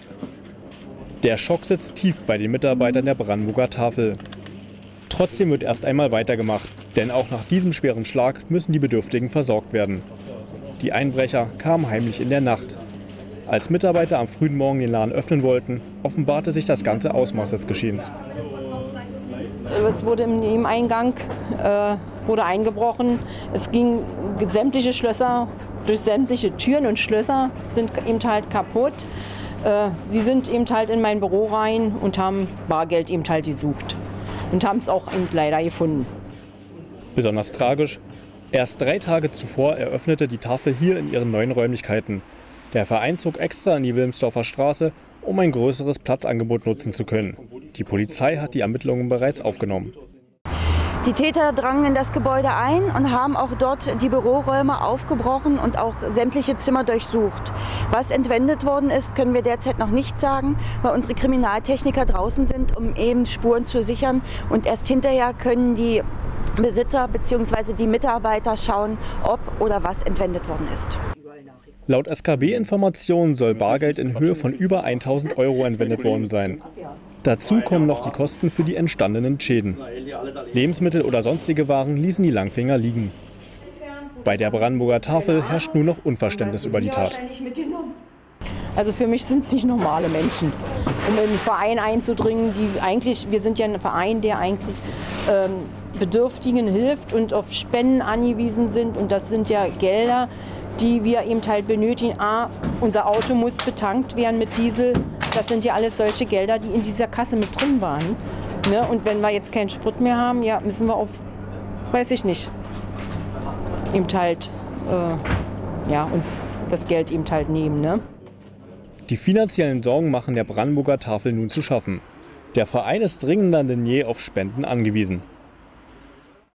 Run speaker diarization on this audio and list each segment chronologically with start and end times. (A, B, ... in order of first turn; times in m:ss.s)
0:01.2-0:04.2 A
0:05.1-0:10.0 A
0:10.8-0:12.8 A
0:13.5-0:18.1 A
0:19.7-0:29.1 B
0:29.6-0:36.1 B
0:37.2-0:38.0 A
0:38.5-0:50.0 A
0:51.0-1:06.0 C
1:06.6-1:11.0 C
1:11.9-1:16.6 A
1:17.2-1:19.8 A
1:20.5-1:23.2 A
1:24.2-1:27.2 A
1:28.7-1:51.2 B
1:51.9-1:52.5 B
1:53.9-1:55.2 B
1:55.9-1:58.0 B
1:59.1-2:02.0 A
2:02.5-2:05.2 A